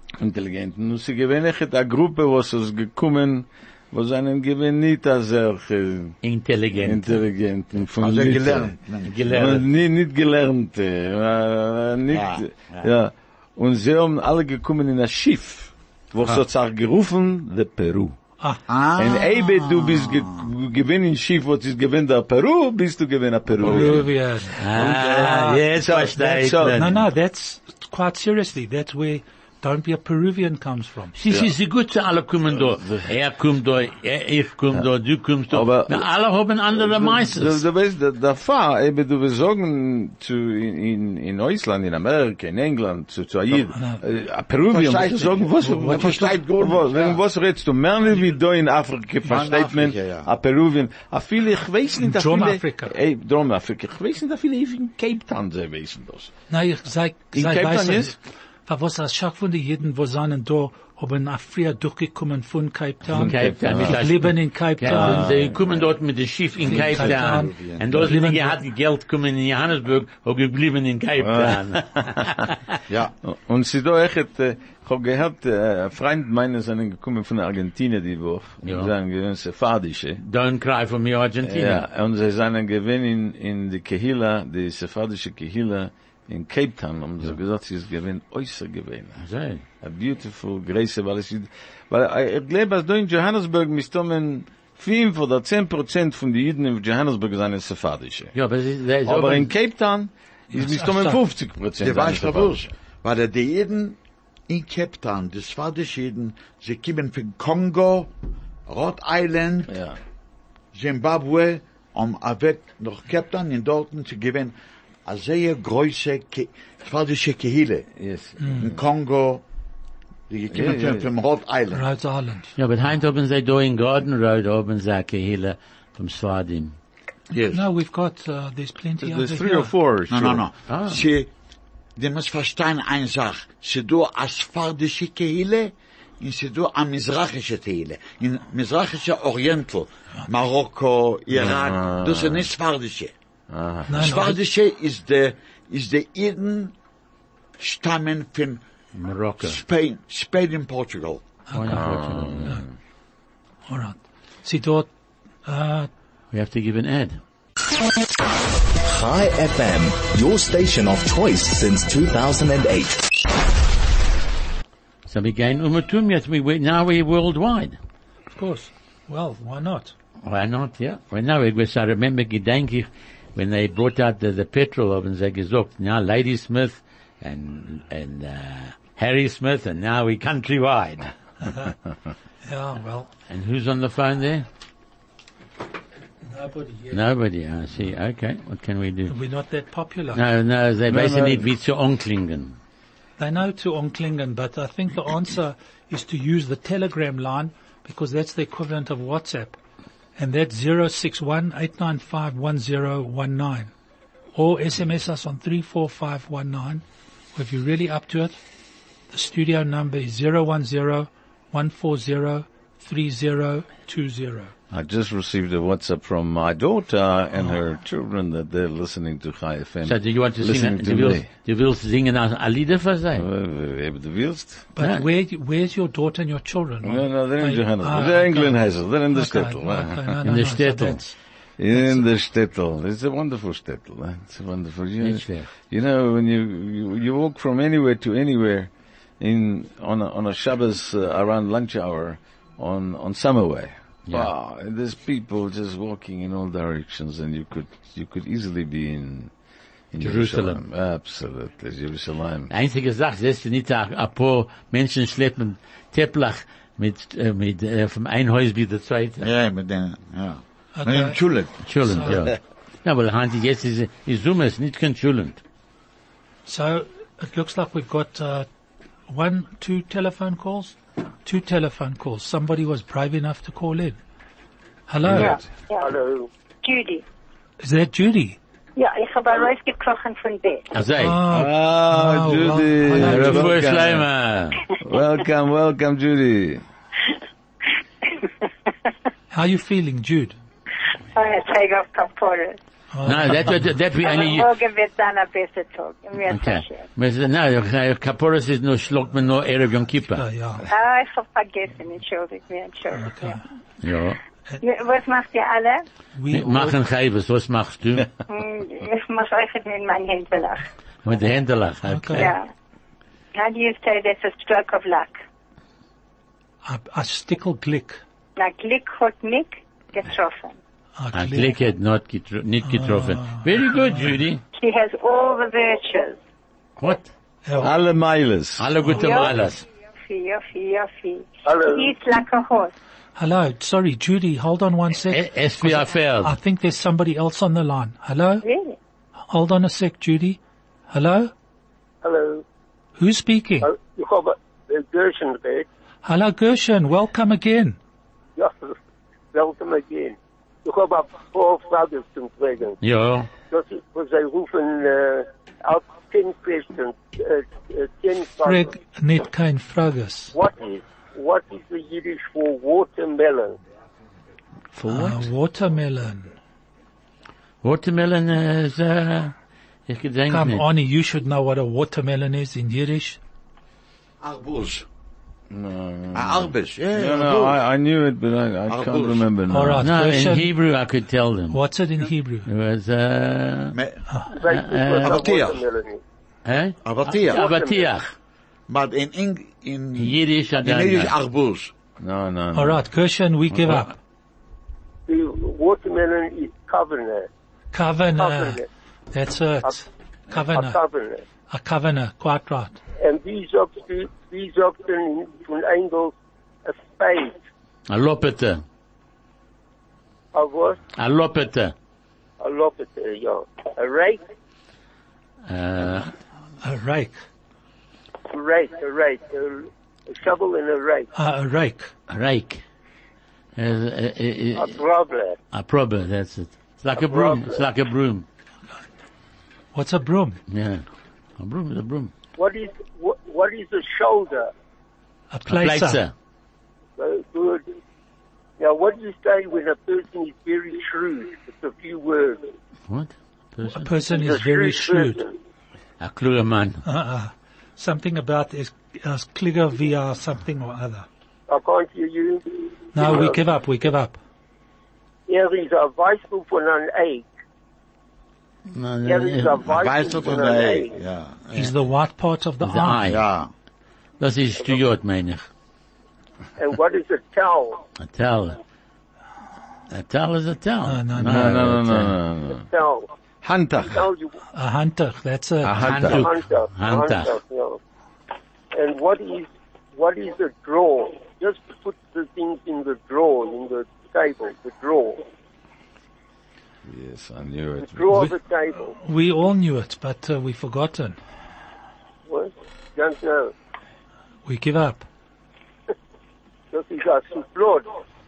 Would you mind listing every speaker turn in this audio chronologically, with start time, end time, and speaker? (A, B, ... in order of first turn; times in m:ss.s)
0:00.2-0:06.2 A
0:06.2-0:07.2 B
0:06.7-0:18.1 A
0:08.0-0:09.2 C
0:09.0-0:09.6 B
0:12.1-0:12.8 C
0:18.7-0:20.4 C
0:18.9-0:27.0 A
0:23.6-0:25.6 D
0:24.6-0:27.0 B
0:26.7-0:31.2 D
0:31.2-0:37.6 B
0:32.5-0:33.1 A
0:35.5-0:36.1 A
0:36.7-0:56.3 A
0:43.7-0:44.0 D
0:44.7-0:47.2 C
0:45.6-0:46.2 D
0:49.2-0:50.3 C
0:52.0-0:52.9 D
0:56.5-1:05.3 D
0:57.3-0:58.1 A
1:03.1-1:04.1 A
1:03.1-1:12.8 B
1:04.8-1:05.9 A
1:06.6-1:08.6 D
1:06.7-1:07.8 C
1:11.2-1:12.4 A
1:13.2-1:20.2 A
1:18.6-1:18.9 B
1:20.2-1:21.8 B
1:21.4-1:29.2 A
1:29.2-1:29.6 B
1:29.8-1:38.4 A
1:38.3-1:39.5 B
1:39.0-1:42.7 A
1:40.5-1:41.2 D
1:41.8-1:48.1 C
1:48.7-1:49.7 C
1:49.7-1:50.0 A
1:50.7-1:54.5 C
1:55.0-1:57.9 C
1:58.0-1:58.4 A
1:58.4-1:58.7 D
1:58.5-1:59.4 C
2:00.3-2:01.8 C
2:00.5-2:01.1 A
2:01.7-2:02.5 D
2:02.6-2:06.7 B
2:07.3-2:07.6 C
2:07.5-2:09.7 D
2:09.0-2:10.5 A
2:10.1-2:11.3 C
2:10.7-2:11.0 B
2:12.0-2:23.1 C
2:21.3-2:22.5 A
2:23.5-2:24.2 A
2:23.9-2:24.4 D
2:23.9-2:26.7 C
2:27.6-2:28.6 C
2:28.9-2:29.6 B
2:29.4-2:31.2 C
2:31.5-2:31.8 D
2:31.5-2:32.6 B
2:31.7-2:32.7 A
2:33.7-2:34.9 D
2:35.4-2:35.9 D
2:36.3-2:37.2 B
2:38.8-2:43.1 E
2:45.0-2:47.8 B
2:48.3-2:49.9 D
2:50.2-3:01.1 B
3:01.4-3:01.7 D
3:02.4-3:03.1 D
3:03.3-3:04.4 B
3:06.3-3:07.0 D
3:06.9-3:09.1 B
3:09.1-3:10.2 D
3:10.1-3:12.6 B
3:10.9-3:11.5 A
3:13.2-3:19.6 D
3:20.2-3:23.7 D
3:24.3-3:26.8 D
3:27.3-3:28.4 D
3:29.1-3:34.5 D
3:34.7-3:41.2 A
3:39.8-3:43.2 B
3:43.1-3:44.7 A
3:44.8-3:51.2 D
3:44.8-3:45.0 B
3:46.8-3:50.2 A
3:50.2-3:51.0 B
3:51.6-4:09.3 A
3:51.7-3:52.0 D
3:55.0-3:55.5 B
4:09.9-4:12.5 A
4:10.0-4:10.6 B
4:12.5-4:19.3 B
4:19.2-4:21.5 C
4:20.7-4:22.2 D
4:21.6-4:25.4 B
4:26.5-4:28.5 D
4:29.1-4:34.0 D
4:34.9-4:35.4 D
4:35.1-4:35.9 F
4:35.8-4:36.3 G
4:36.6-4:37.0 F
4:37.6-4:38.4 D
4:38.8-4:40.7 F
4:40.7-4:41.2 B
4:41.0-4:43.5 D
4:41.3-4:44.0 A
4:42.9-4:44.6 B
4:44.8-4:46.6 A
4:49.3-4:50.4 D
4:51.1-4:52.6 F
4:52.9-4:53.7 D
4:53.0-4:54.5 B
4:54.0-4:56.9 F
4:56.3-5:00.2 B
5:00.2-5:00.7 D
5:00.7-5:03.4 F
5:03.0-5:03.4 D
5:03.8-5:04.2 B
5:04.6-5:05.8 F
5:06.1-5:06.8 D
5:06.3-5:08.1 B
5:08.3-5:10.6 F
5:11.0-5:12.4 B
5:11.8-5:12.3 D
5:12.1-5:12.5 F
5:13.3-5:15.2 F
5:16.6-5:18.0 D
5:18.4-5:20.6 F
5:21.0-5:21.5 D
5:21.1-5:24.4 B
5:22.6-5:24.0 D
5:24.5-5:26.2 F
5:26.8-5:27.1 B
5:27.4-5:27.7 D
5:27.6-5:28.7 A
5:28.6-5:29.6 B
5:28.9-5:32.7 F
5:31.4-5:31.9 G
5:33.2-5:38.4 D
5:35.1-5:36.4 B
5:38.4-5:38.8 F
5:39.3-5:40.4 D
5:40.9-5:41.3 D
5:42.0-5:42.4 G
5:43.0-5:43.7 D
5:43.6-5:45.6 G
5:46.0-5:47.8 D
5:48.4-5:48.7 G
5:49.3-5:52.8 G
5:52.8-5:53.3 B
5:53.5-5:58.7 G
5:58.4-6:00.3 D
6:00.3-6:03.6 G
6:04.8-6:05.2 B
6:04.9-6:06.3 D
6:07.6-6:09.3 B
6:09.9-6:10.6 B
6:10.3-6:13.2 D
6:14.2-6:14.8 C
6:15.5-6:19.9 A
6:16.1-6:17.6 C
6:18.7-6:19.3 C
6:19.5-6:20.5 D
6:19.8-6:21.6 B
6:21.5-6:22.5 D
6:22.4-6:23.8 B
6:23.7-6:24.0 C
6:24.3-6:26.0 G
6:24.4-6:25.2 B
6:25.0-6:25.6 C
6:26.4-6:28.1 B
6:26.8-6:27.4 C
6:27.3-6:27.9 G
6:28.7-6:31.7 C
6:30.0-6:31.1 B
6:32.0-6:32.8 A
6:32.5-6:33.9 D
6:35.1-6:37.3 G
6:37.7-6:38.6 D
6:38.2-6:38.7 G
6:39.1-6:40.8 D
6:40.3-6:41.2 G
6:41.5-6:42.8 D
6:43.0-6:47.4 G
6:47.9-6:48.6 B
6:50.3-6:50.8 G
6:51.0-6:51.7 B
6:52.4-6:54.2 G
6:55.5-6:56.1 B
6:56.6-6:57.2 D
6:58.3-7:01.1 G
7:01.1-7:01.9 D
7:02.1-7:02.6 B
7:03.6-7:04.8 B
7:04.5-7:05.4 G
7:05.5-7:08.2 B
7:06.9-7:07.6 G
7:09.7-7:10.4 D
7:10.5-7:10.8 B
7:11.4-7:12.1 B
7:12.4-7:14.5 G
7:15.3-7:16.0 D
7:15.5-7:16.1 B
7:17.0-7:17.6 G
7:18.6-7:22.5 G
7:22.9-7:23.9 B
7:23.7-7:25.2 D
7:24.1-7:25.3 G
7:26.0-7:26.8 B
7:26.8-7:31.1 D
7:31.5-7:32.4 G
7:32.9-7:34.2 D
7:33.0-7:33.4 G
7:35.3-7:37.3 G
7:38.7-7:39.6 B
7:39.0-7:41.0 G
7:39.6-7:41.4 C
7:41.5-7:43.0 D
7:42.6-7:43.2 B
7:43.0-7:43.5 C
7:44.2-7:45.5 B
7:46.6-7:47.8 G
7:48.0-7:48.6 B
7:49.9-7:52.2 B
7:50.8-7:51.6 D
7:51.2-7:52.6 A
7:52.5-7:53.1 G
7:53.4-7:54.0 A
7:53.8-7:54.4 G
7:54.5-7:55.9 D
7:55.6-7:56.3 A
7:55.8-7:57.3 B
7:56.0-7:57.8 G
7:58.7-8:05.2 G
8:06.8-8:08.2 A
8:07.9-8:09.0 G
8:08.9-8:11.2 D
8:12.3-8:13.5 G
8:14.4-8:15.1 D
8:16.7-8:17.9 G